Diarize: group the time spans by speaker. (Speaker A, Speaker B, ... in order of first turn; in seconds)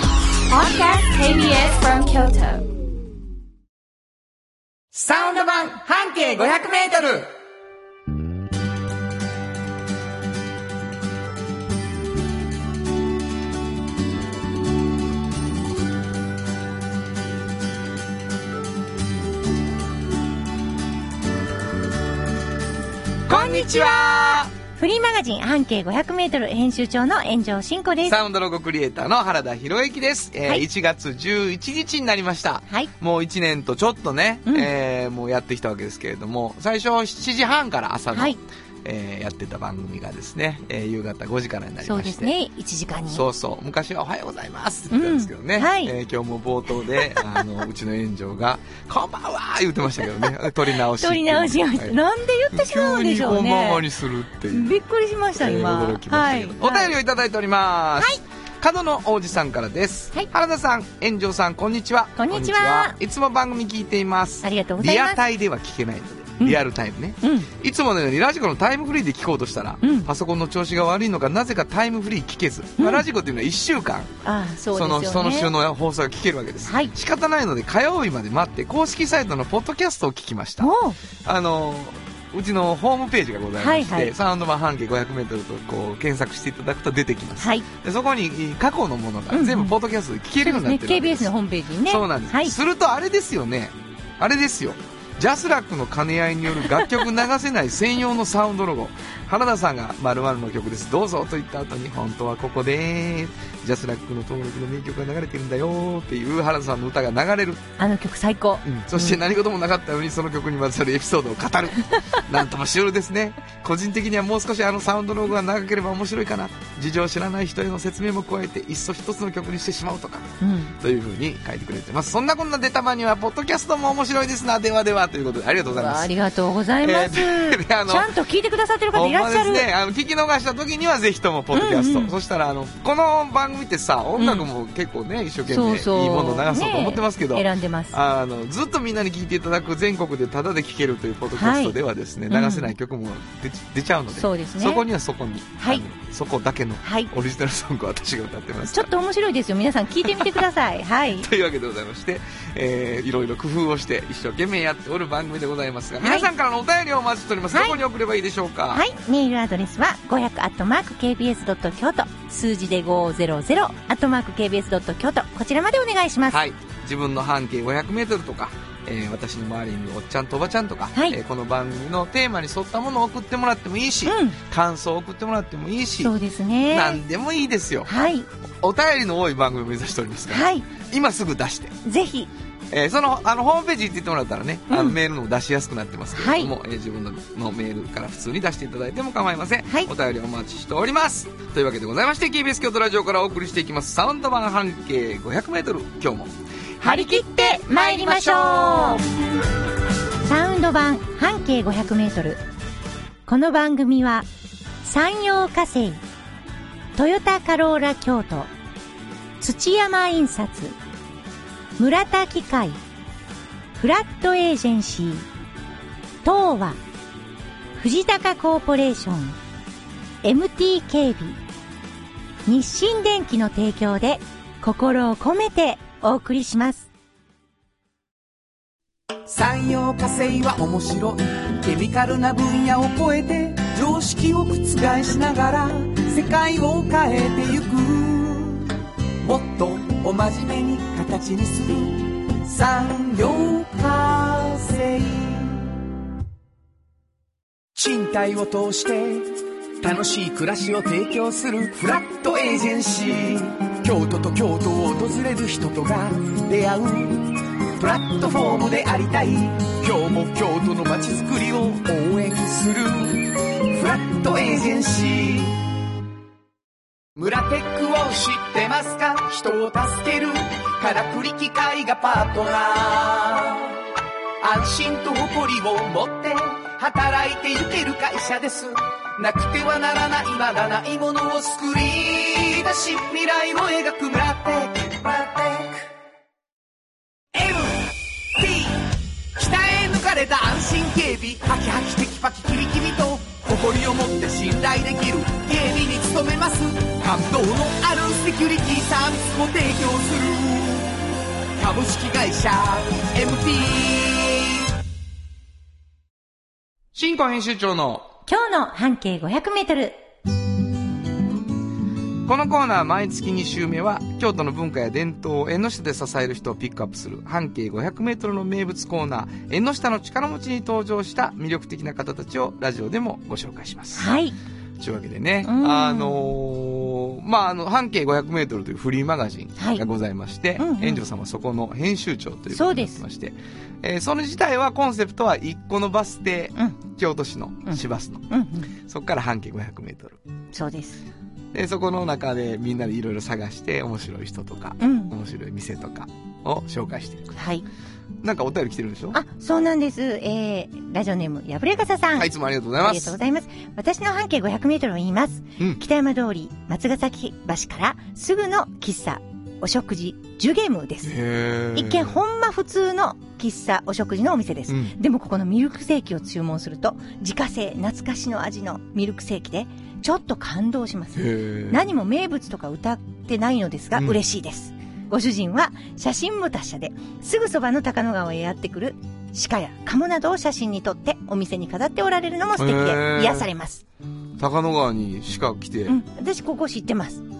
Speaker A: 0.5-2.7
Speaker B: 4.9-7.3, 23.3-24.5, 28.1-42.3, 43.1-52.0, 52.5-54.8, 55.4-74.1, 74.7-91.3, 91.9-107.7, 108.6-126.1, 126.8-128.1, 128.9-148.9, 150.1-150.4, 151.2-158.8, 166.3-176.1, 176.7-177.9, 178.6-181.8, 182.7-198.5, 306.9-308.1, 312.2-324.2, 324.8-340.2, 341.5-347.3, 348.2-349.2, 352.2-353.2, 361.0-362.2, 364.7-365.0, 371.1-371.9, 382.6-383.5, 384.4-386.0
Speaker C: 23.3-28.2, 38.1-38.4, 41.8-43.3, 44.9-46.0, 51.0-53.9, 54.5-56.9, 62.2-63.0, 64.4-65.2, 67.2-67.5, 69.8-70.1, 72.8-73.0, 74.2-75.5, 76.7-76.9, 80.6-81.0, 83.6-84.1, 87.4-87.7, 89.3-89.8, 90.4-92.5, 107.8-109.2, 120.4-120.8, 125.7-129.7, 131.5-132.2, 134.2-134.5, 135.5-138.0, 141.3-141.8, 142.3-142.7, 144.1-144.9, 145.6-145.8, 146.8-147.1, 148.7-151.3, 156.0-156.3, 157.5-157.8, 158.7-166.4, 174.1-174.4, 176.0-177.0, 177.9-178.3, 180.3-180.7, 181.8-182.3, 184.7-185.0, 186.1-186.5, 196.8-199.0, 200.2-202.4, 203.3-204.3, 204.8-206.0, 207.0-208.5, 209.4-210.8, 211.8-212.8, 213.8-215.3, 216.2-216.8, 217.8-219.4, 220.2-221.4, 222.5-226.9, 308.3-310.0, 323.9-324.4, 325.4-326.3, 329.6-329.8, 330.6-331.0, 332.5-333.0, 337.7-338.7, 340.5-341.1, 344.8-345.1, 347.4-347.7, 349.1-361.1, 361.7-383.8, 385.9-387.2
Speaker D: 229.3-238.7, 239.2-245.7, 247.8-265.6, 267.2-273.8, 274.4-285.9, 287.3-300.9, 301.6-304.6